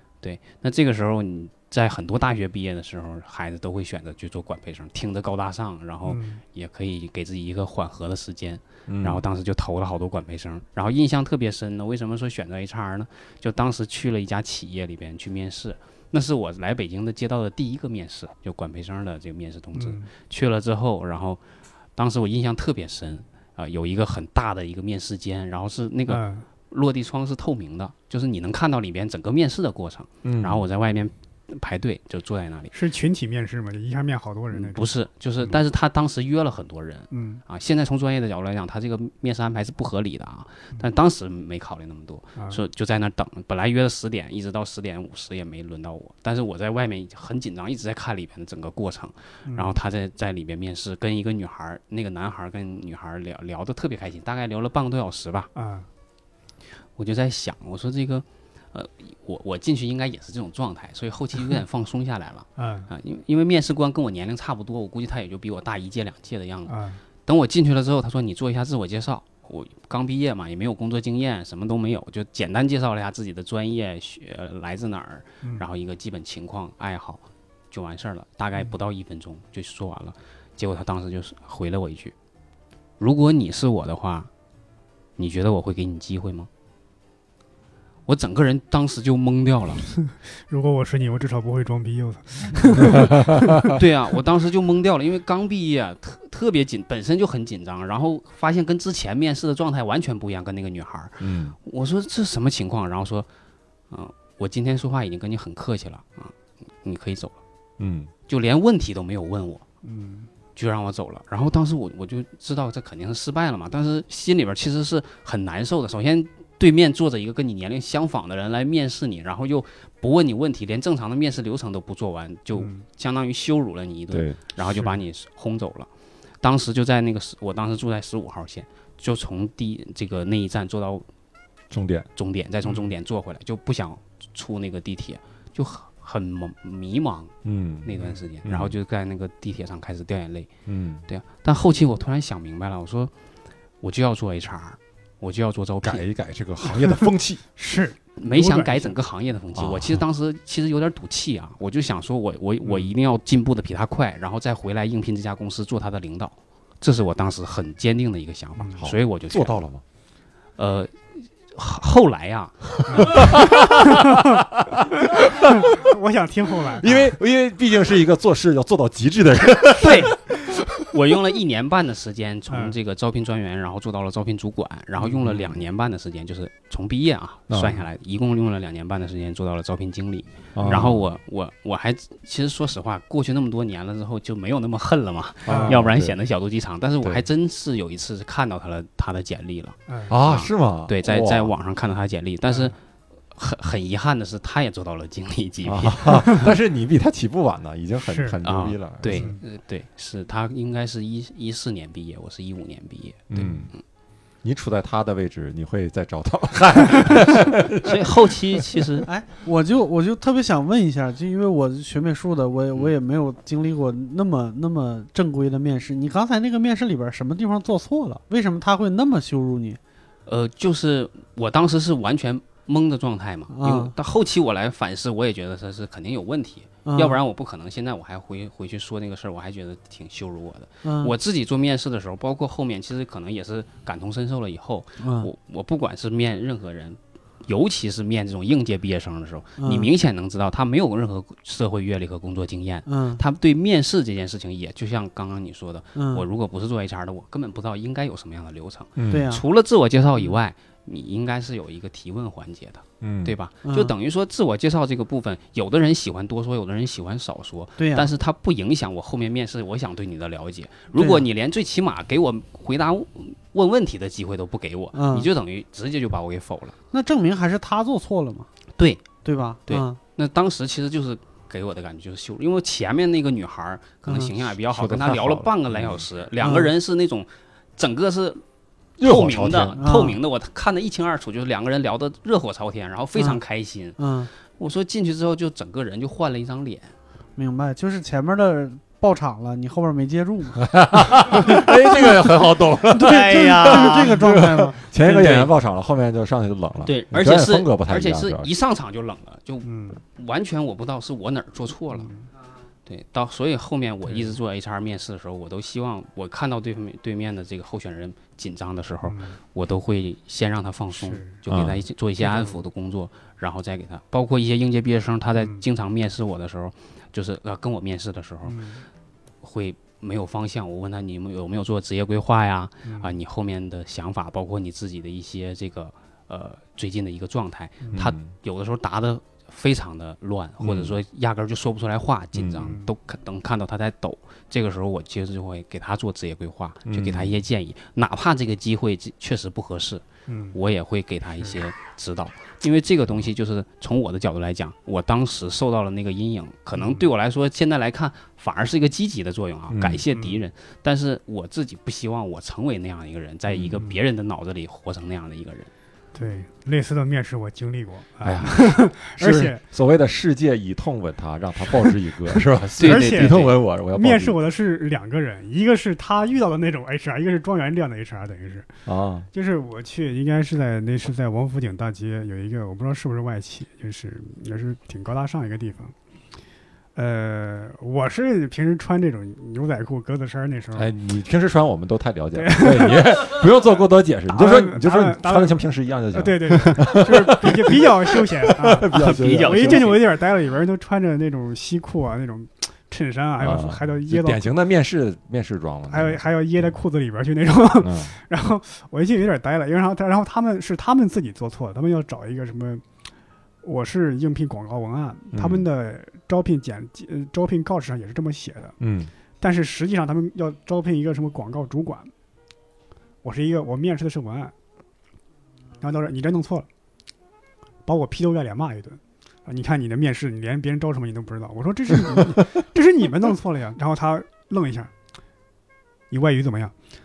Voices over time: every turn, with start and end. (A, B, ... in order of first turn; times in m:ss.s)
0:00.2-0:21.4 A
0:06.0-0:06.4 B
0:08.9-0:09.2 C
0:19.8-0:20.1 B
0:22.0-0:32.8 A
0:26.1-0:26.4 B
0:30.2-0:30.6 C
0:32.7-0:34.9 B
0:34.5-0:55.5 A
0:37.1-0:37.4 B
0:49.5-0:49.7 B
0:55.6-0:55.9 B
0:57.0-1:22.1 A
1:02.6-1:02.9 B
1:06.7-1:07.0 B
1:23.0-1:24.3 A
1:25.2-1:26.5 A
1:28.1-1:29.9 A
1:30.1-1:33.8 B
1:33.7-1:43.3 A
1:41.2-1:41.6 C
1:43.9-1:47.4 A
1:47.8-1:48.1 C
1:48.3-1:49.6 A
1:49.8-1:50.3 B
1:50.6-2:05.9 A
2:02.6-2:02.8 B
2:04.1-2:04.4 C
2:06.4-2:11.1 A
2:11.7-2:12.1 C
2:12.2-2:20.5 A
2:12.6-2:12.9 B
2:17.4-2:17.9 C
2:18.4-2:18.7 C
2:20.7-2:21.0 C
2:21.1-2:23.1 A
2:23.8-2:26.0 A
2:25.8-2:27.4 C
2:26.7-2:27.0 B
2:27.6-2:29.0 B
2:28.2-2:39.6 A
2:29.6-2:30.0 C
2:32.6-2:32.9 B
2:38.6-2:38.8 B
2:38.8-2:39.8 C
2:40.6-2:43.5 A
2:42.9-2:44.4 B
2:42.9-2:45.7 C
2:45.1-2:47.1 B
2:46.8-2:50.8 C
2:49.8-2:50.1 A
2:50.9-3:12.8 A
2:57.5-2:57.8 C
3:00.6-3:01.1 C
3:05.5-3:06.2 C
3:05.5-3:05.8 B
3:09.9-3:10.1 B
3:10.1-3:11.5 C
3:13.3-3:16.4 A
3:15.6-3:19.3 C
3:18.0-3:18.4 B
3:18.4-3:23.8 A
3:19.1-3:19.4 B
3:23.3-3:23.7 C
3:24.4-3:29.0 C
3:27.8-3:29.1 A
3:29.1-3:39.8 D
3:40.3-4:26.8 A
3:43.5-3:43.9 D
3:46.8-3:47.2 D
3:50.8-3:51.1 D
3:55.0-3:55.3 D
3:59.6-3:59.9 D
4:02.9-4:03.2 D
4:06.0-4:06.3 D
4:09.0-4:09.3 C
4:09.1-4:09.4 D
4:13.0-4:13.4 C
4:13.6-4:13.9 D
4:17.8-4:18.1 D
4:20.9-4:21.2 D
4:24.9-4:25.3 D
4:26.9-4:28.5 D
4:28.8-4:29.1 A
4:29.2-4:30.0 D
4:29.7-4:38.4 A
4:34.1-4:34.3 D
4:34.7-4:36.1 C
4:36.4-4:36.7 D
4:39.0-4:39.8 C
4:39.0-4:44.0 A
4:39.8-4:40.2 D
4:44.0-4:44.3 D
4:44.6-4:46.9 A
4:47.4-4:50.7 D
4:50.6-4:58.5 C
4:51.3-4:52.2 D
4:52.9-4:55.4 D
4:53.0-4:54.1 A
4:55.0-4:55.5 A
4:56.8-5:02.1 A
4:59.6-5:00.0 B
5:01.9-5:02.3 B
5:02.9-5:18.6 A
5:04.0-5:04.4 B
5:09.0-5:09.4 B
5:10.9-5:11.4 B
5:11.5-5:11.8 C
5:12.2-5:12.6 B
5:15.4-5:15.6 B
5:18.5-5:18.8 B
5:19.4-5:55.7 A
5:22.8-5:23.1 B
5:27.9-5:28.3 C
5:30.6-5:31.0 C
5:32.4-5:32.7 C
5:32.6-5:32.9 B
5:36.9-5:37.4 C
5:40.3-5:40.6 B
5:46.8-5:47.1 B
5:49.7-5:50.0 C
5:50.1-5:50.4 B
5:53.5-5:53.8 C
5:56.1-5:59.6 B
5:58.2-6:04.4 C
6:02.8-6:03.5 A
6:02.8-6:08.7 B
6:08.9-6:09.3 C
6:09.3-6:15.9 B
6:17.0-6:20.9 B
6:20.7-6:30.0 C
6:22.4-6:23.5 B
6:24.3-6:34.4 B
6:28.9-6:30.0 A
6:33.4-6:36.7 C
6:35.9-6:42.8 B
6:37.8-6:38.1 C
6:43.6-6:48.8 B
6:45.3-6:45.7 C
6:48.8-6:49.1 C
6:49.4-6:52.1 B
6:53.2-6:54.5 B
6:55.8-6:56.7 B
6:57.9-7:04.9 B
7:06.1-7:06.7 B